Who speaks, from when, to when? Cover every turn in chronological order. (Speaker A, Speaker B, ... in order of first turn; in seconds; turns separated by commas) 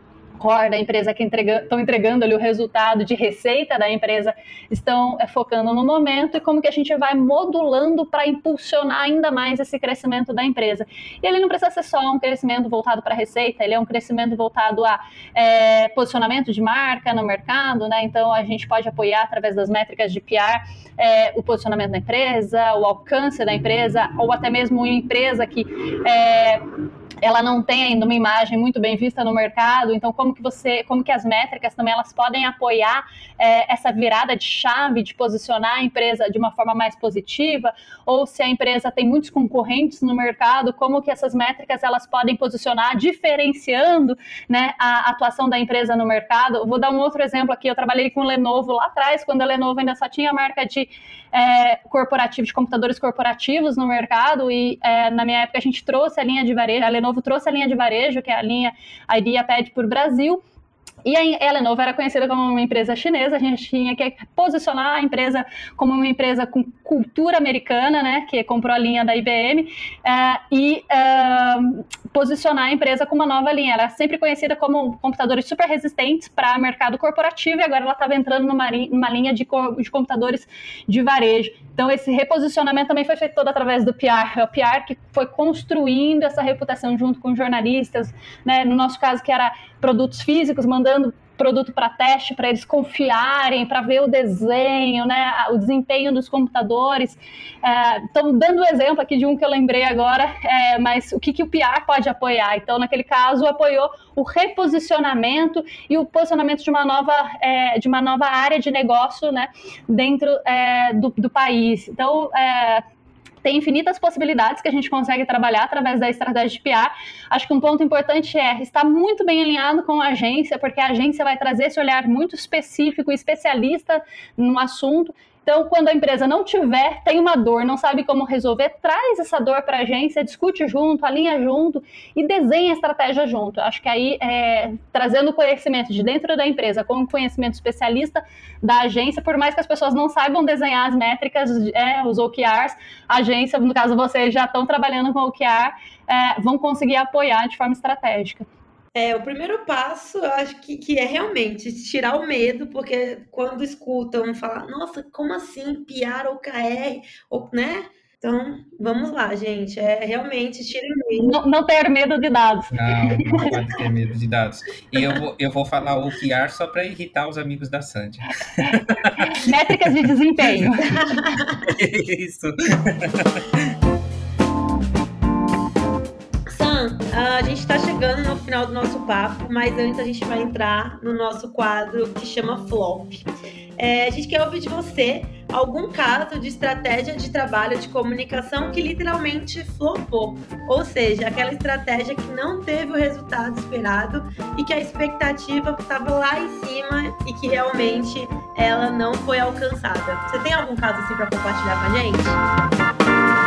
Speaker A: 0.4-26.6, Speaker A: 27.2-60.4, Speaker A: 61.0-112.8, Speaker A: 113.4-148.4, Speaker B: 148.9-161.4, Speaker A: 161.2-163.4, Speaker C: 162.7-170.7, Speaker A: 168.6-170.9, Speaker B: 170.8-171.7, Speaker C: 171.6-173.7, Speaker B: 176.5-202.4